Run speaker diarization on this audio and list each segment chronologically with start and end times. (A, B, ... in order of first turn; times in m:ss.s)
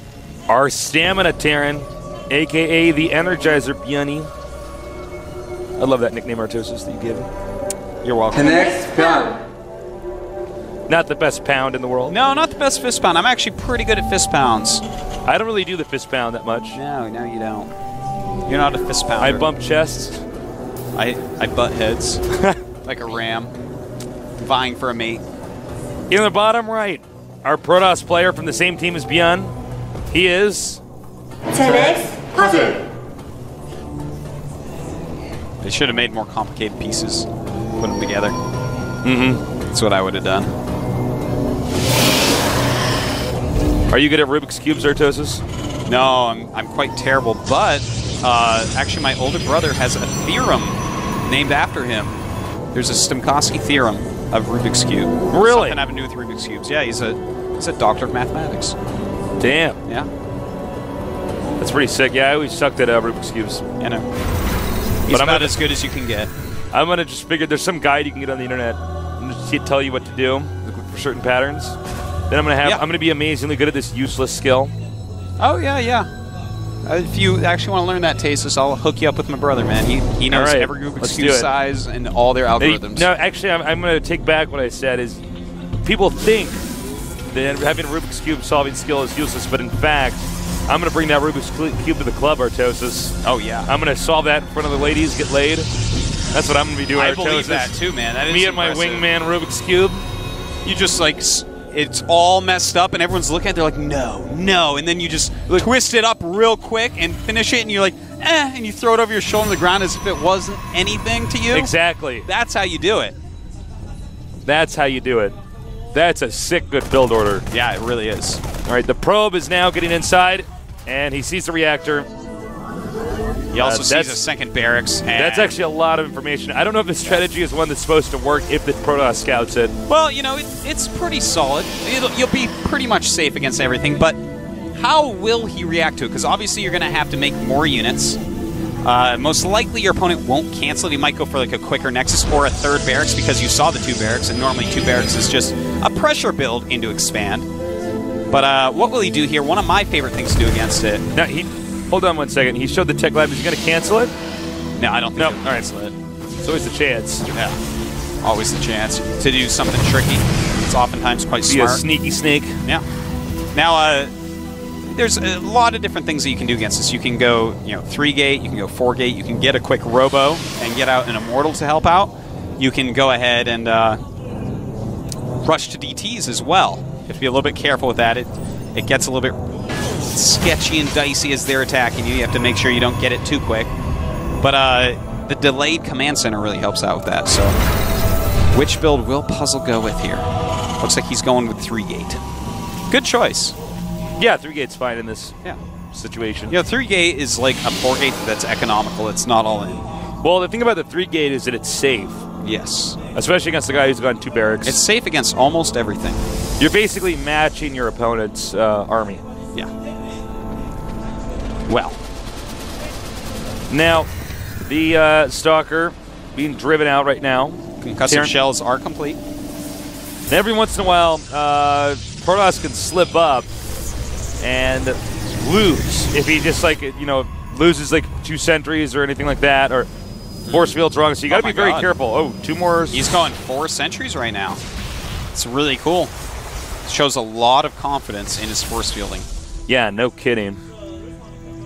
0:00.5-0:04.3 A
0:05.8-0:07.3 A
0:08.0-0:09.3 B
0:08.6-0:09.4 C
0:10.9-0:12.2 A
0:12.1-0:14.8 B
0:15.3-0:16.8 A
0:16.7-0:17.7 B
0:18.5-0:19.5 B
0:19.2-0:20.2 A
0:21.0-0:22.2 B
0:22.8-0:23.5 B
0:24.4-0:25.2 B
0:26.1-0:29.5 A
0:30.1-0:30.8 A
0:31.5-0:32.8 C
0:35.6-0:37.3 B
0:37.8-0:38.4 B
0:39.0-0:39.4 A
0:39.7-0:40.5 B
0:43.9-0:45.4 A
0:45.9-0:52.2 B
0:52.7-0:58.8 B
0:55.3-0:55.8 A
0:59.4-0:59.8 A
1:01.6-1:03.6 A
1:03.8-1:04.1 B
1:05.1-1:06.3 B
1:05.1-1:05.6 A
1:06.7-1:11.8 A
1:12.3-1:14.7 A
1:15.4-1:16.1 B
1:16.8-1:23.1 B
1:20.3-1:21.5 A
1:22.6-1:25.2 A
1:25.8-1:26.6 A
1:27.3-1:33.2 A
1:33.2-1:33.7 B
1:33.7-1:35.7 A
1:36.3-1:37.7 A
1:37.0-1:39.1 B
1:38.3-1:40.0 A
1:40.6-1:51.7 B
1:51.5-1:52.3 A
1:52.2-1:53.2 B
1:54.5-1:55.4 A
1:55.9-1:57.4 A
1:57.5-1:58.4 B
1:58.6-2:02.1 A
2:03.5-2:05.5 B
2:03.6-2:04.2 A
2:05.1-2:09.7 A
2:09.9-2:14.2 B
2:14.8-2:18.2 B
2:18.8-2:27.5 B
2:28.3-2:31.0 B
2:31.1-2:34.1 A
2:34.8-2:35.9 B
2:35.2-2:35.8 A
2:36.4-2:37.3 A
2:37.3-2:37.6 B
2:38.2-2:41.8 B
2:41.5-2:42.6 A
2:43.5-2:44.1 B
2:44.8-2:54.0 B
2:55.4-2:59.4 B
3:00.0-3:03.7 B
3:04.4-3:07.6 B
3:08.5-3:10.2 B
3:10.8-3:12.2 B
3:12.9-3:13.6 B
3:14.2-3:15.4 A
3:15.9-3:16.6 A
3:16.5-3:19.8 B
3:20.2-3:22.2 A
3:22.4-3:23.0 B
3:23.1-3:24.8 A
3:24.6-3:26.2 B
3:26.6-3:29.2 A
3:31.7-3:32.0 B
3:33.7-3:34.1 A
3:34.7-3:38.3 A
3:37.8-3:39.2 B
3:40.3-3:43.5 A
3:44.4-3:49.9 A
3:50.5-3:51.9 B
3:50.5-3:53.0 A
3:52.9-3:54.6 B
3:55.3-3:56.1 B
3:56.9-3:59.3 B
3:59.7-4:00.6 A